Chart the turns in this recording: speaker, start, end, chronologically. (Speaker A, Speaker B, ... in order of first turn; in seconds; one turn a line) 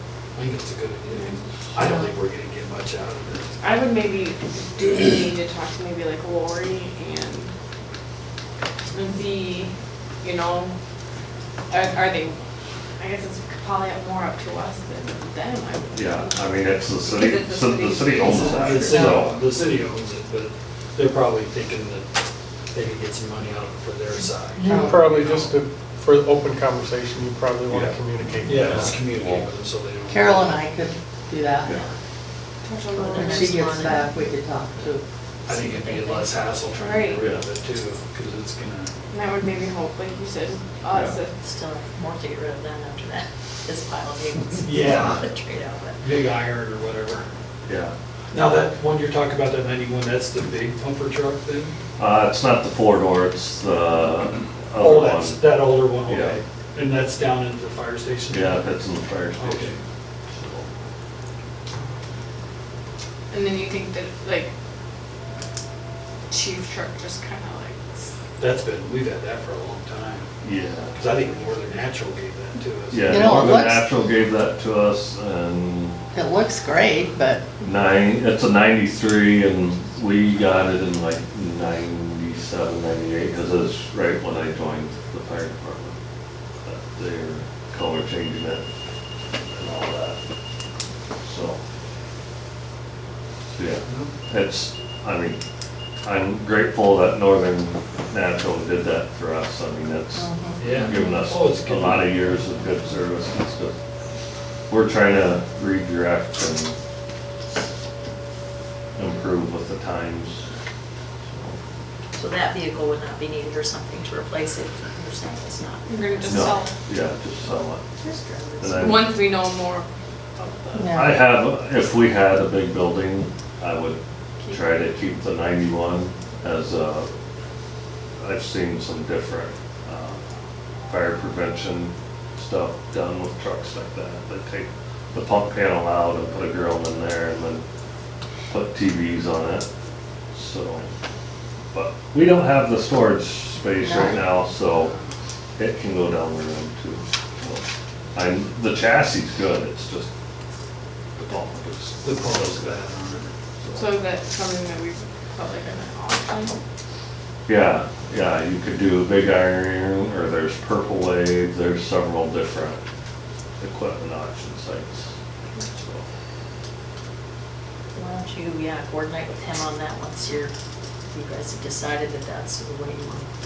Speaker A: 0.3-3.6
Speaker B: 3.6-7.5
Speaker B: 8.9-10.7
Speaker B: 11.7-12.4
Speaker B: 13.0-16.3
Speaker C: 15.9-19.4
Speaker B: 17.1-19.1
Speaker A: 18.5-22.2
Speaker A: 22.7-25.6
Speaker D: 24.6-29.2
Speaker E: 24.7-25.0
Speaker A: 27.7-30.6
Speaker C: 28.7-29.4
Speaker E: 30.1-31.8
Speaker B: 32.6-33.5
Speaker F: 33.0-34.1
Speaker E: 33.2-35.0
Speaker A: 35.5-39.0
Speaker F: 35.5-36.5
Speaker B: 36.8-37.2
Speaker B: 39.1-41.3
Speaker C: 40.9-41.2
Speaker F: 41.4-46.0
Speaker A: 44.6-45.3
Speaker A: 46.0-47.3
Speaker C: 47.7-47.9
Speaker A: 48.3-51.8
Speaker C: 52.0-56.4
Speaker A: 54.8-58.6
Speaker C: 58.3-59.8
Speaker A: 59.4-59.8
Speaker C: 60.3-60.7
Speaker B: 63.3-64.5
Speaker B: 66.3-67.8
Speaker A: 68.4-70.3
Speaker C: 70.4-71.0
Speaker A: 70.9-73.4
Speaker C: 72.9-76.0
Speaker E: 73.1-73.9
Speaker E: 76.1-77.4
Speaker C: 77.6-86.0
Speaker C: 86.6-88.6
Speaker C: 89.5-90.2
Speaker C: 91.2-91.6
Speaker C: 93.6-95.4
Speaker A: 93.9-94.1
Speaker C: 96.0-103.8
Speaker E: 100.2-100.7
Speaker A: 100.6-102.4
Speaker C: 104.7-106.8
Speaker C: 109.0-110.4
Speaker C: 111.3-111.6
Speaker F: 112.1-116.6
Speaker B: 116.0-116.7
Speaker C: 116.3-117.8
Speaker F: 118.0-119.1
Speaker C: 118.6-119.1
Speaker B: 118.8-119.9
Speaker B: 120.4-120.8
Speaker E: 120.8-121.2
Speaker C: 120.8-124.0
Speaker C: 124.5-127.1
Speaker C: 128.2-130.2
Speaker C: 130.9-137.6
Speaker C: 138.5-139.7
Speaker C: 140.3-140.9
Speaker C: 141.7-144.9
Speaker E: 143.8-144.2
Speaker C: 145.6-147.6
Speaker C: 148.1-150.1
Speaker C: 151.2-152.7
Speaker A: 152.0-153.3
Speaker C: 153.6-153.9
Speaker B: 153.8-156.6
Speaker C: 157.5-162.8
Speaker C: 163.6-166.1
Speaker F: 167.9-170.5
Speaker F: 171.1-173.3